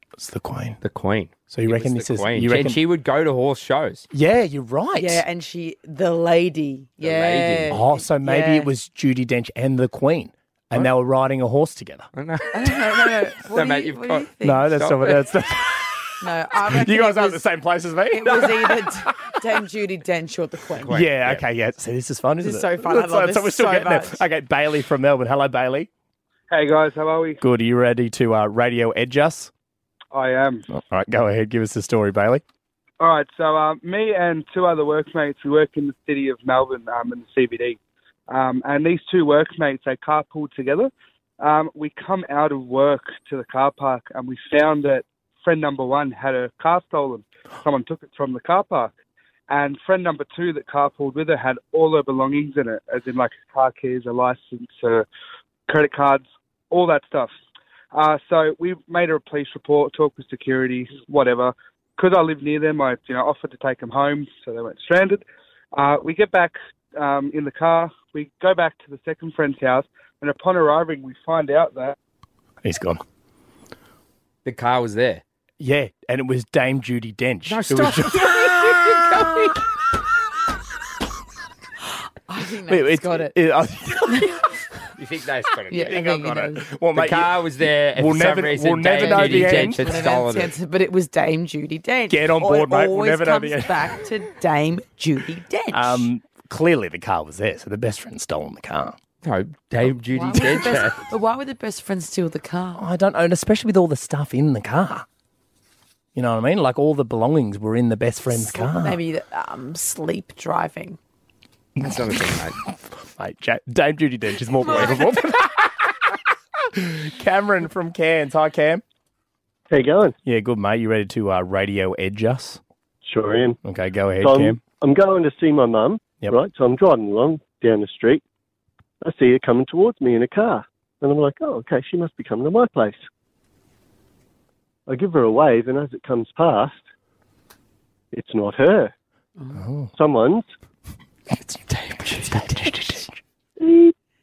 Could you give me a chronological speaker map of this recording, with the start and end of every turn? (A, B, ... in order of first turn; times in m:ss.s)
0:00.2-0:00.8 A
0:00.8-0:04.1 B
0:01.5-0:02.8 A
0:04.1-0:05.2 A
0:05.0-0:08.7 C
0:07.0-0:07.8 B
0:07.7-0:12.1 A
0:12.2-0:15.2 B
0:12.5-0:14.8 C
0:14.4-0:19.4 A
0:16.2-0:17.4 C
0:18.1-0:21.0 C
0:20.8-0:21.4 B
0:20.9-0:25.9 A
0:22.4-0:24.2 C
0:26.5-0:27.4 D
0:27.4-0:29.5 A
0:30.1-0:30.6 D
0:30.7-0:32.4 A
0:33.0-0:48.9 D
0:49.5-0:55.1 D
0:55.7-0:57.3 D
0:57.9-1:12.0 D
1:12.6-1:13.0 A
1:14.4-1:15.2 B
1:15.6-1:18.5 A
1:17.5-1:19.6 B
1:22.3-1:23.3 C
1:22.7-1:24.4 A
1:24.1-1:24.4 C
1:25.0-1:26.0 B
1:25.7-1:26.6 C
1:25.7-1:29.9 A
1:27.0-1:30.5 B
1:29.0-1:36.1 C
1:32.1-1:34.0 A
1:35.7-1:39.0 A
1:39.2-1:41.0 B
1:40.1-1:42.8 C
1:42.8-1:45.1 A
1:46.2-1:49.0 A
1:48.3-1:51.0 C
1:51.8-1:52.6 B
1:52.3-1:58.8 A
1:54.6-1:55.2 C
1:59.7-2:00.1 E
2:00.2-2:02.6 A
2:03.1-2:03.6 E
2:03.6-2:04.6 A
2:04.2-2:08.2 E
2:09.0-2:13.0 E
2:14.9-2:16.8 E
2:18.1-2:18.9 E
2:19.6-2:19.9 A
2:19.9-2:20.5 E
2:21.5-2:22.7 B
2:22.3-2:23.1 A
2:23.6-2:23.9 E